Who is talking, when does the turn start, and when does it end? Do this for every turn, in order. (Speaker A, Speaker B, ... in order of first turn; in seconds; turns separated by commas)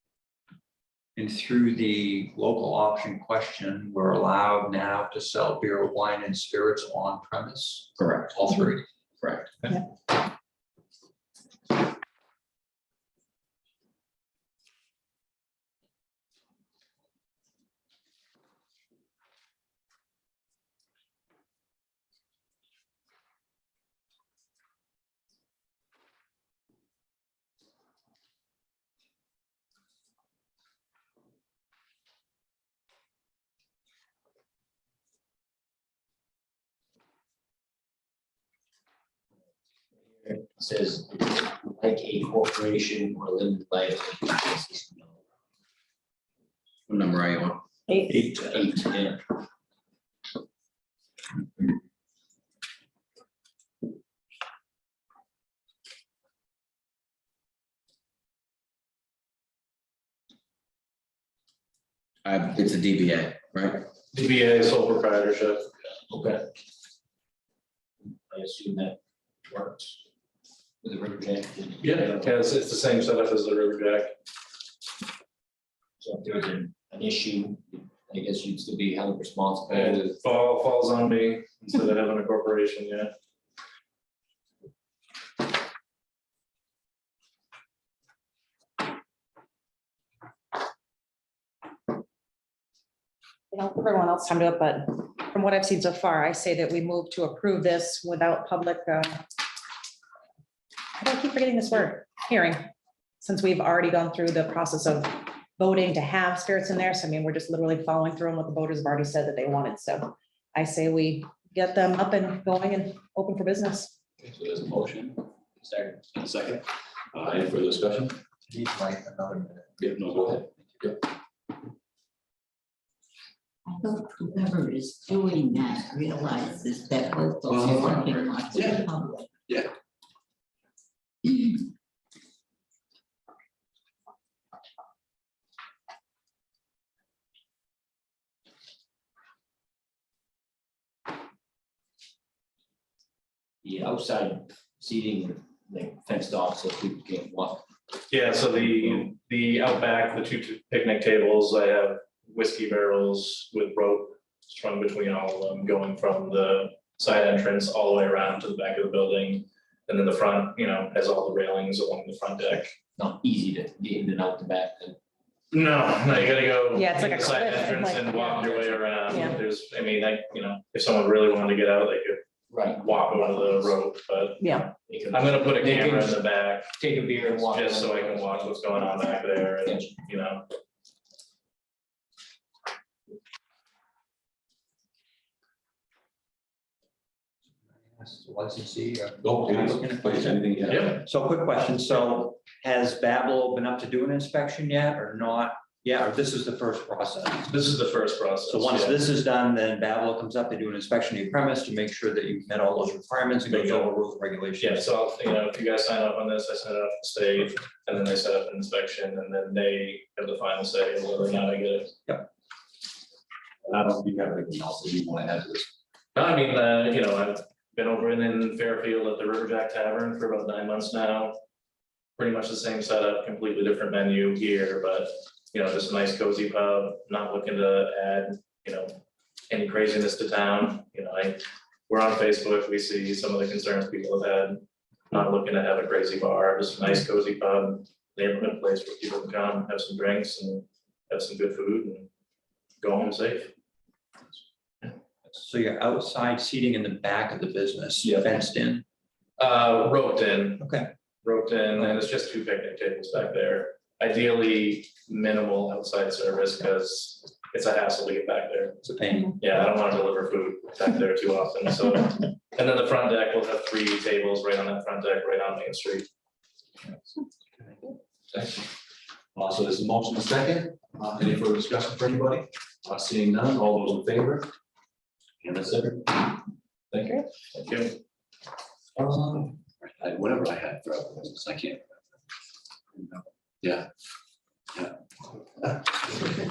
Speaker A: 1.1-8.8, Speaker B: 40.2-45.1, Speaker C: 46.9-47.6, Speaker D: 47.9-48.2, Speaker A: 48.1-48.7, Speaker B: 48.5-49.2, Speaker C: 62.2-63.8, Speaker E: 64.1-65.7, Speaker B: 66.1-66.5, Speaker B: 68.0-70.0, Speaker B: 70.8-72.4, Speaker E: 71.8-74.1, Speaker B: 76.0-80.2, Speaker E: 79.7-83.1, Speaker D: 93.5-99.2, Speaker D: 100.9-102.6, Speaker D: 103.2-113.9, Speaker F: 114.2-115.2, Speaker B: 115.6-116.0, Speaker F: 116.1-118.2, Speaker A: 118.5-119.7, Speaker F: 119.8-120.9, Speaker G: 123.7-129.3, Speaker F: 127.5-128.9, Speaker B: 143.6-147.7, Speaker E: 148.1-162.7, Speaker B: 163.0-165.0, Speaker E: 165.5-172.2, Speaker D: 166.7-169.4, Speaker B: 172.5-173.5, Speaker E: 172.8-176.7, Speaker D: 174.4-174.7, Speaker B: 174.9-176.2, Speaker B: 176.8-179.1, Speaker E: 177.4-180.4, Speaker B: 179.6-180.0, Speaker A: 187.9-197.5, Speaker F: 189.2-191.0, Speaker E: 190.7-190.9, Speaker E: 197.5-199.0, Speaker A: 198.5-204.8, Speaker E: 203.5-203.9, Speaker E: 204.6-211.9, Speaker F: 213.7-215.7, Speaker E: 216.1-221.3, Speaker E: 222.2-229.0, Speaker E: 229.5-242.1, Speaker E: 242.8-243.5, Speaker A: 245.4-248.8, Speaker E: 249.4-250.7, Speaker A: 250.6-250.9, Speaker E: 251.2-258.8, Speaker A: 258.8-259.4, Speaker E: 259.4-266.1, Speaker F: 268.3-268.7, Speaker F: 269.3-274.5, Speaker F: 275.4-276.3, Speaker F: 276.9-277.9, Speaker F: 279.0-281.8, Speaker F: 282.9-283.9